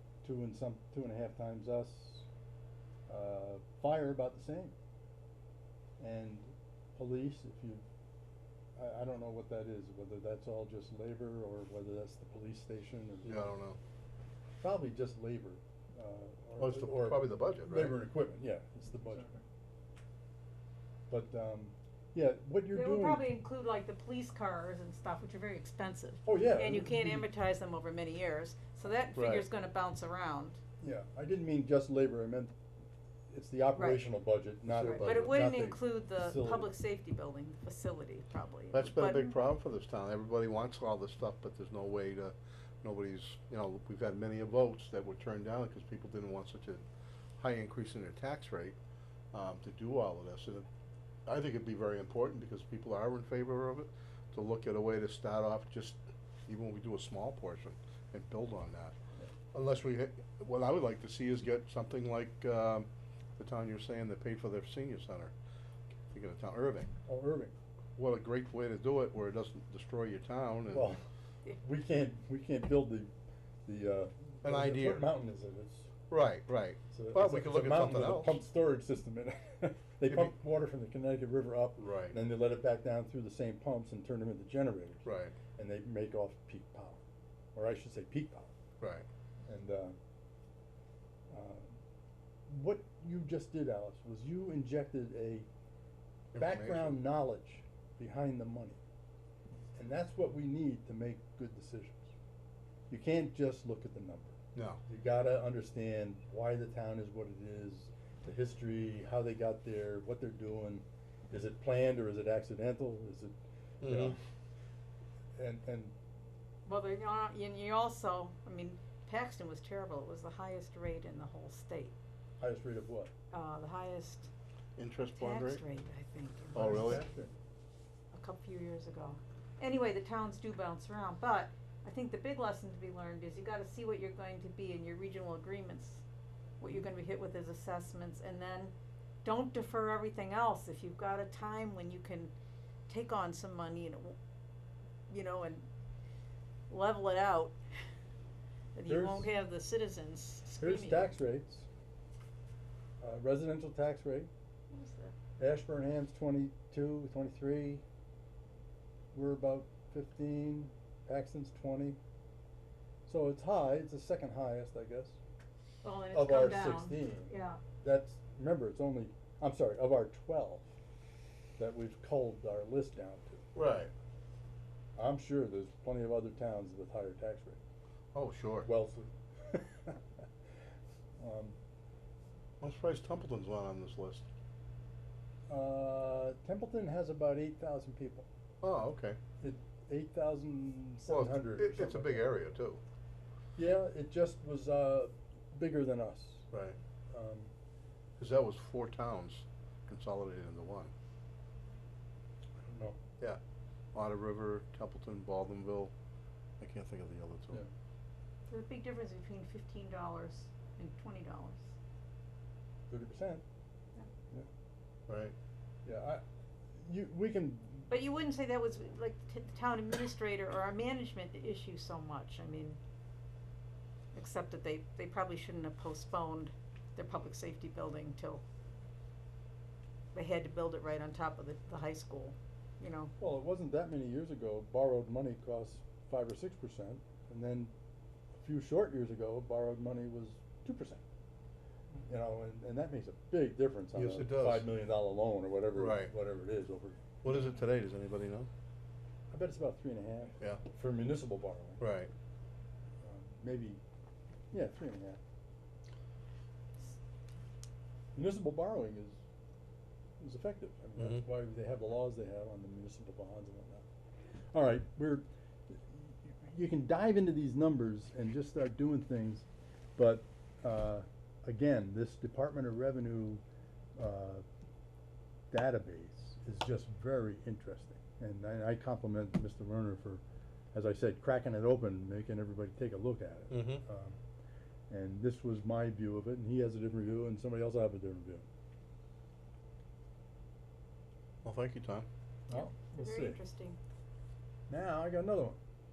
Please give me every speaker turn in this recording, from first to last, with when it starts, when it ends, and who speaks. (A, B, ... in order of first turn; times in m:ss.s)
0:00.2-0:02.3 A
0:03.1-0:04.7 A
0:06.0-0:07.8 A
0:08.8-0:13.5 A
0:13.2-0:13.8 B
0:14.6-0:19.3 A
0:16.6-0:18.0 B
0:21.1-0:23.3 A
0:22.7-0:30.6 C
0:26.2-0:27.2 A
0:29.1-0:29.4 B
0:30.8-0:32.6 A
0:33.3-0:36.7 A
0:33.7-0:34.0 C
0:34.7-0:35.5 B
0:34.8-0:39.3 C
0:38.7-0:46.8 B
0:47.4-0:48.8 B
0:49.3-0:50.6 B
0:51.2-0:59.0 B
0:59.5-1:05.3 B
1:06.1-1:06.9 B
1:07.1-1:07.5 A
1:08.0-1:11.0 B
1:10.7-1:11.0 A
1:11.6-1:13.1 A
1:13.6-1:15.9 A
1:14.4-1:15.1 B
1:16.1-1:18.4 B
1:16.9-1:27.0 A
1:20.1-1:20.3 B
1:21.8-1:22.2 B
1:25.0-1:25.4 B
1:27.5-1:28.5 A
1:28.8-1:29.0 B
1:29.5-1:30.0 A
1:31.3-1:31.8 A
1:32.5-1:35.5 A
1:36.3-1:37.0 B
1:36.4-1:38.8 A
1:39.7-1:42.1 A
1:42.9-1:54.2 A
1:44.5-1:44.8 B
1:53.8-1:54.2 B
1:55.4-1:55.9 A
1:56.6-2:01.9 C
2:02.4-2:03.1 A
2:03.3-2:04.3 C
2:04.8-2:05.6 B
2:05.1-2:07.0 C
2:06.5-2:07.0 B
2:06.5-2:07.3 A
2:08.1-2:16.0 C
2:16.6-2:22.3 C
2:22.9-2:24.2 C
2:25.1-2:25.7 C
2:26.7-2:27.5 C
2:28.7-2:31.1 C
2:28.8-2:29.3 A
2:30.6-2:31.7 A
2:33.0-2:34.3 A
2:34.7-2:35.1 C
2:35.4-2:37.8 A
2:39.1-2:42.0 A
2:43.1-2:45.2 A
2:45.8-2:47.6 C
2:46.1-2:50.7 A
2:51.6-2:53.5 A
2:53.5-2:53.9 B
2:55.0-2:57.6 A
2:58.1-2:58.7 B
2:58.6-3:00.2 A
3:01.2-3:01.6 A
3:02.6-3:04.3 B
3:05.5-3:08.2 A
3:08.6-3:09.2 B
3:09.4-3:12.3 A
3:11.1-3:12.8 B
3:13.6-3:16.5 A
3:16.5-3:16.8 B
3:17.1-3:17.5 A
3:18.2-3:20.9 B
3:22.6-3:23.0 A
3:23.9-3:25.9 B
3:26.6-3:27.6 B
3:28.5-3:31.7 C
3:32.9-3:33.4 A
3:35.1-3:35.3 B
3:35.8-3:36.2 A
3:36.8-3:37.9 A
3:37.9-3:42.8 C
3:44.1-3:48.4 C
3:50.1-3:53.1 C
3:53.2-3:57.7 A
3:58.4-4:01.0 A
4:02.1-4:07.0 A
4:03.9-4:04.7 B
4:05.7-4:06.1 B
4:07.2-4:08.5 B
4:09.3-4:11.8 A
4:11.8-4:12.1 B
4:13.0-4:13.8 A
4:14.5-4:15.2 A
4:18.1-4:19.2 A
4:20.2-4:23.8 A
4:21.0-4:21.2 B
4:24.5-4:33.4 A
4:34.0-4:34.4 A
4:35.5-4:40.2 A
4:40.7-4:44.2 A
4:43.5-4:43.8 B
4:44.9-4:48.4 A
4:51.4-4:52.1 B
4:52.5-4:53.4 A
4:52.5-4:53.8 C
4:54.7-4:55.6 A